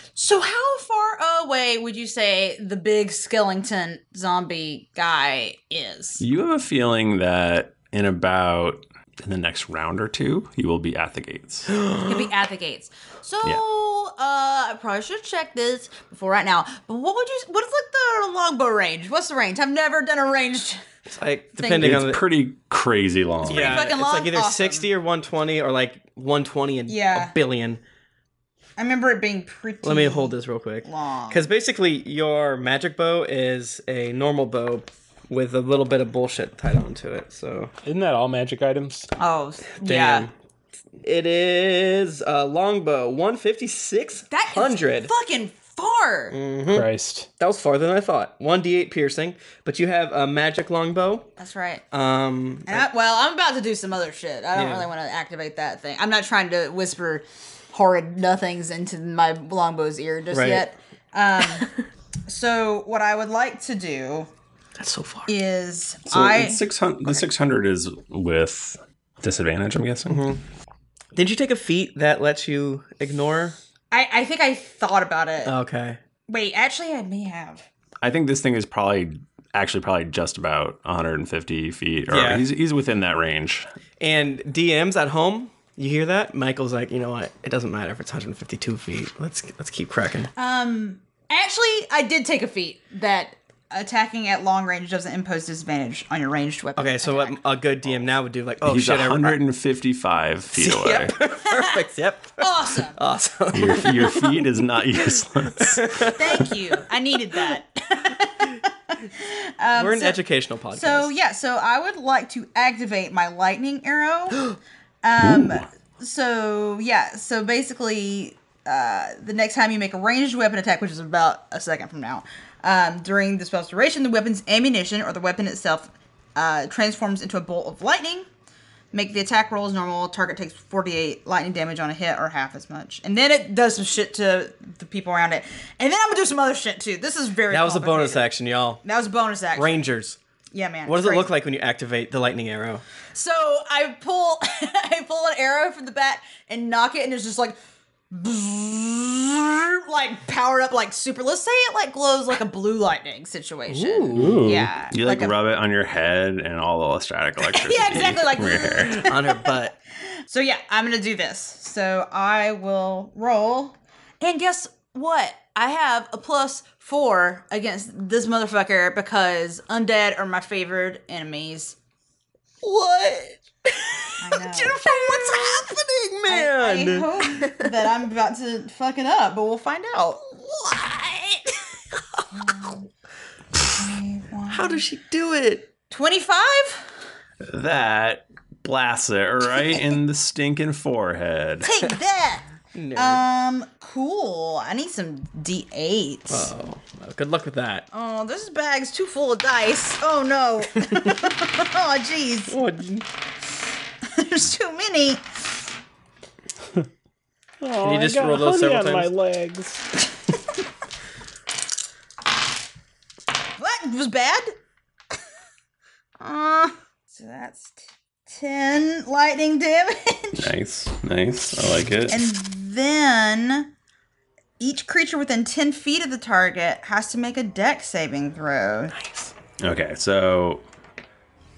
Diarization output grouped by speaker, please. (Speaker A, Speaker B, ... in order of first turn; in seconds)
Speaker A: 0.1-6.2, 12.1-20.8, 21.6-22.0, 23.4-24.9, 26.9-27.4, 28.8-31.5, 39.2-40.3, 44.3-46.4, 51.4-51.8, 52.7-61.7, 62.3-64.3, 65.3-67.2, 73.9-75.5, 76.3-77.7, 90.3-97.4, 101.5-101.8, 102.4-103.0, 106.2-110.2, 110.7-114.5, 115.0-128.3, 128.9-138.3, 138.8-139.9, 140.5-141.3, 143.1-147.6, 148.1-155.3, 157.4-159.6, 160.3-171.8, 174.2-175.7, 176.3-181.4, 182.3-182.9, 183.7-184.8, 185.9-186.9, 191.6-196.5, 197.9-202.6, 204.1-205.2, 213.6-214.5, 216.2-220.4, 222.1-223.7, 224.6-228.9
Speaker B: 6.2-11.7, 21.8-24.0, 66.1-70.2, 78.0-83.7, 98.6-101.1, 103.5-106.4, 115.2-115.7, 154.9-159.0, 187.4-191.7, 220.3-222.2, 229.6-230.6
Speaker C: 11.7-12.1, 21.1-22.2, 23.4-27.8, 29.8-37.7, 39.8-40.3, 41.0-45.1, 46.3-51.3, 51.9-52.9, 54.5-54.9, 60.3-60.7, 64.8-65.3, 70.1-70.4, 71.1-73.6, 75.4-76.0, 82.1-82.4, 84.0-90.3, 96.8-99.4, 100.5-104.2, 105.6-106.4, 109.7-111.1, 137.5-138.8, 139.5-140.2, 140.8-142.8, 153.7-154.6, 158.8-159.7, 172.6-177.4, 184.5-185.7, 192.7-193.2, 196.3-197.8, 202.5-203.1, 207.8-209.1
Speaker D: 37.8-39.1, 46.7-47.3, 154.1-154.7, 207.6-209.9